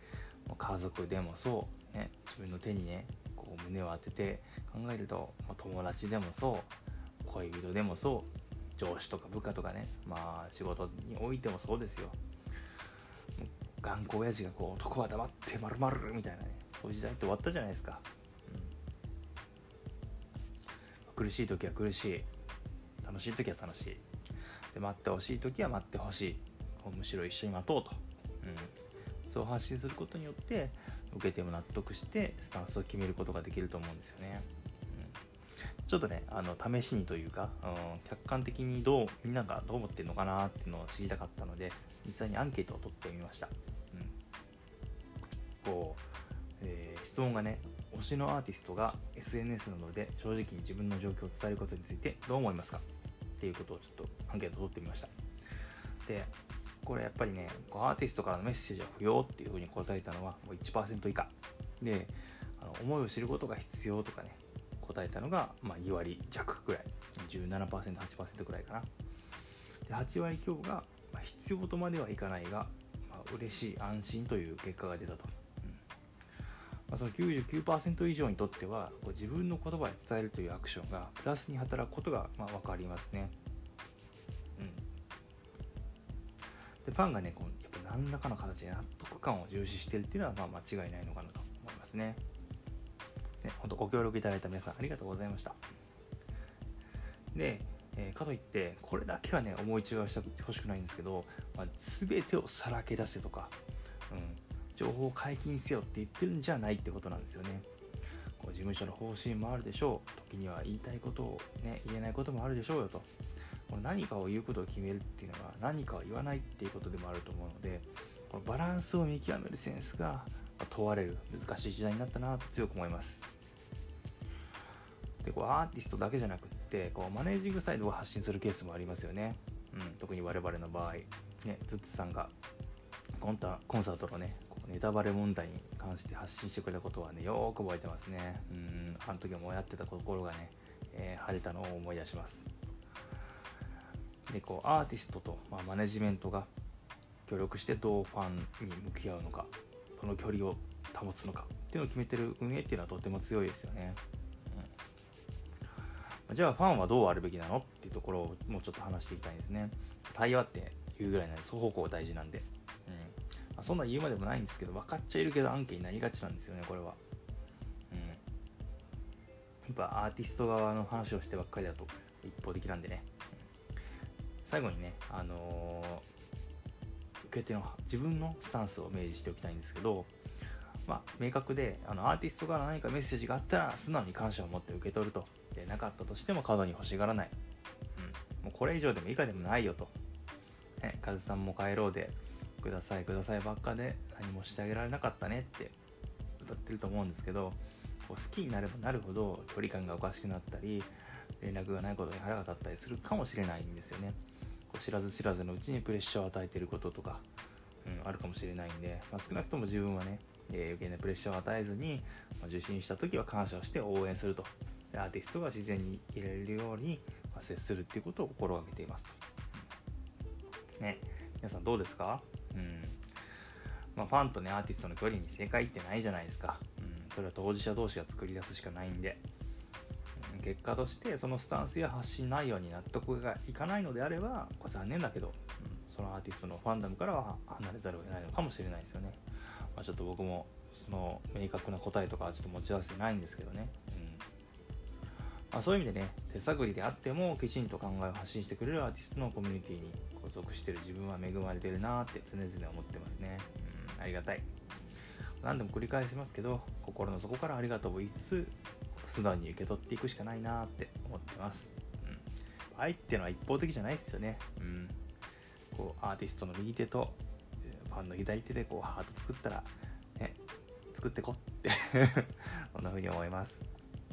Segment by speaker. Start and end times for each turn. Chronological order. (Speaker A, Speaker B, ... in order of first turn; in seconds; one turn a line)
Speaker A: 0.5-6.7
Speaker A: 7.2-12.2
Speaker A: 13.4-18.7
Speaker A: 21.1-22.3
Speaker A: 23.0-24.0
Speaker A: 24.7-28.7
Speaker A: 29.3-35.2
Speaker A: 35.8-44.1
Speaker A: 45.6-46.1
Speaker A: 46.6-52.8
Speaker A: 53.4-55.1
Speaker A: 56.0-68.9
Speaker A: 69.8-75.8
Speaker A: 76.9-83.3
Speaker A: 84.6-84.8
Speaker A: 86.8-92.2
Speaker A: 93.4-95.6
Speaker A: 97.3-103.5
Speaker A: 104.1-107.7
Speaker A: 108.4-113.1
Speaker A: 113.7-123.2
Speaker A: 125.2-132.3
Speaker A: 133.2-142.5
Speaker A: 144.3-146.5
Speaker A: 147.2-154.7
Speaker A: 156.3-167.0
Speaker A: 167.9-168.2
Speaker A: 169.7-173.1
Speaker A: 174.4-176.1
Speaker A: 177.2-180.1
Speaker A: 180.8-187.3
Speaker A: 187.9-189.9
Speaker A: 190.8-195.7
Speaker A: 196.4-204.2
Speaker A: 204.7-207.2
Speaker A: 207.8-219.2
Speaker A: 220.8-223.0
Speaker A: 223.9-229.2
Speaker A: 230.2-244.2
Speaker A: 245.5-254.5
Speaker A: 255.4-264.9
Speaker A: 265.7-270.4
Speaker A: 270.9-273.6